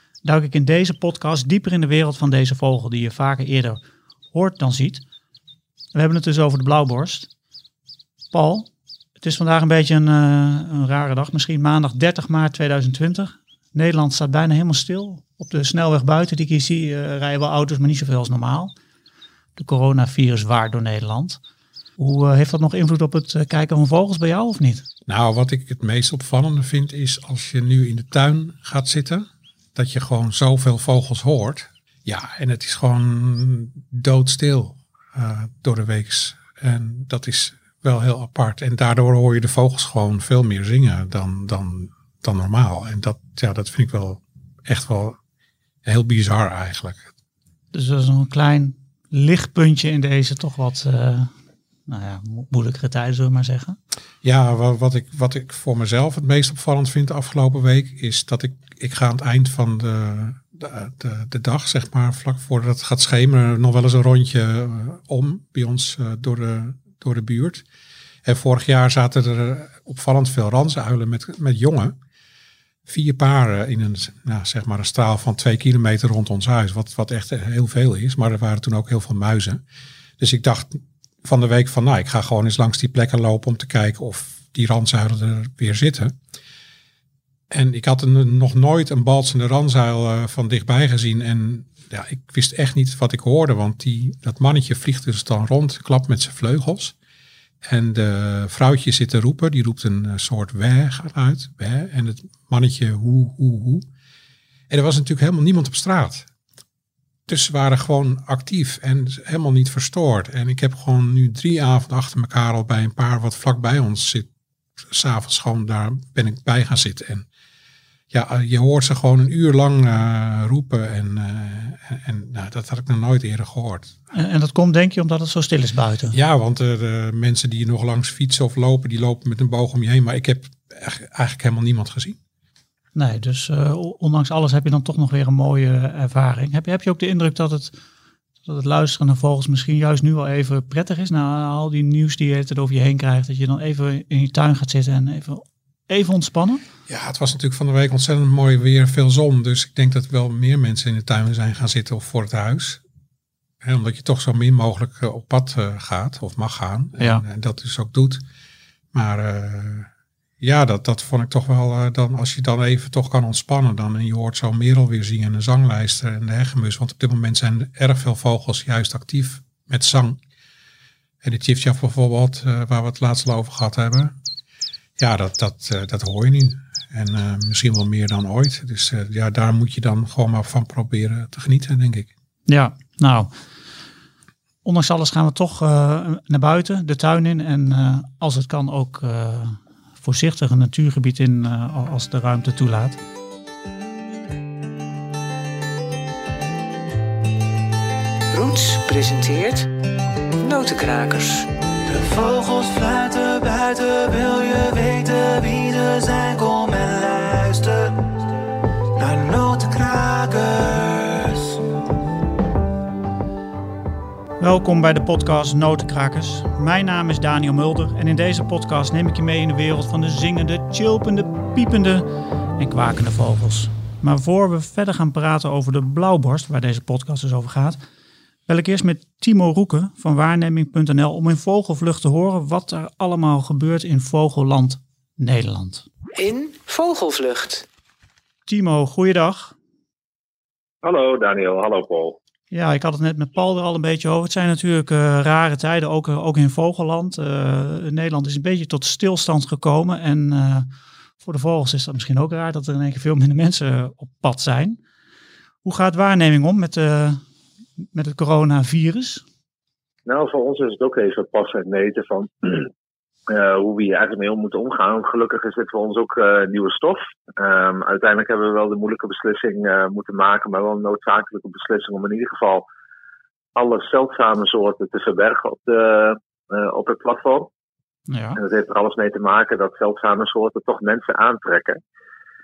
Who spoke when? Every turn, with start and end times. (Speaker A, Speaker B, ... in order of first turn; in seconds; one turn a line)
Speaker A: 0.2-3.8
Speaker A: 4.3-5.0
Speaker A: 5.9-7.3
Speaker A: 8.3-8.7
Speaker A: 9.2-18.7
Speaker A: 19.6-21.4
Speaker A: 22.0-24.9
Speaker B: 25.1-45.2
Speaker B: 45.8-47.1
Speaker A: 47.7-51.3
Speaker A: 51.9-53.8
Speaker B: 54.2-67.6
Speaker B: 68.2-72.0
Speaker B: 72.9-79.6
Speaker B: 80.2-86.2
Speaker B: 87.5-96.9
Speaker B: 97.6-103.9
Speaker B: 104.7-106.3
Speaker B: 107.3-114.3
Speaker B: 114.9-117.2
Speaker B: 118.1-124.0
Speaker A: 124.1-126.2
Speaker B: 126.1-132.2
Speaker A: 132.9-137.8
Speaker A: 138.4-146.6
Speaker B: 146.9-152.8
Speaker B: 153.6-158.2
Speaker B: 158.9-159.9
Speaker B: 160.4-170.2
Speaker B: 171.2-174.1
Speaker B: 175.0-182.1
Speaker A: 182.5-183.3
Speaker A: 184.6-193.0
Speaker C: 198.3-199.7
Speaker C: 200.4-201.5
Speaker D: 201.9-208.2
Speaker D: 208.9-211.6
Speaker A: 214.4-227.8
Speaker A: 228.5-235.8
Speaker C: 236.2-237.7
Speaker A: 238.5-239.5
Speaker E: 240.8-242.2
Speaker A: 242.5-250.7
Speaker A: 251.2-254.8
Speaker A: 255.6-257.2
Speaker A: 257.9-259.2
Speaker E: 260.1-262.7
Speaker E: 263.3-272.6
Speaker E: 273.5-277.5
Speaker A: 278.1-278.4
Speaker E: 278.4-281.8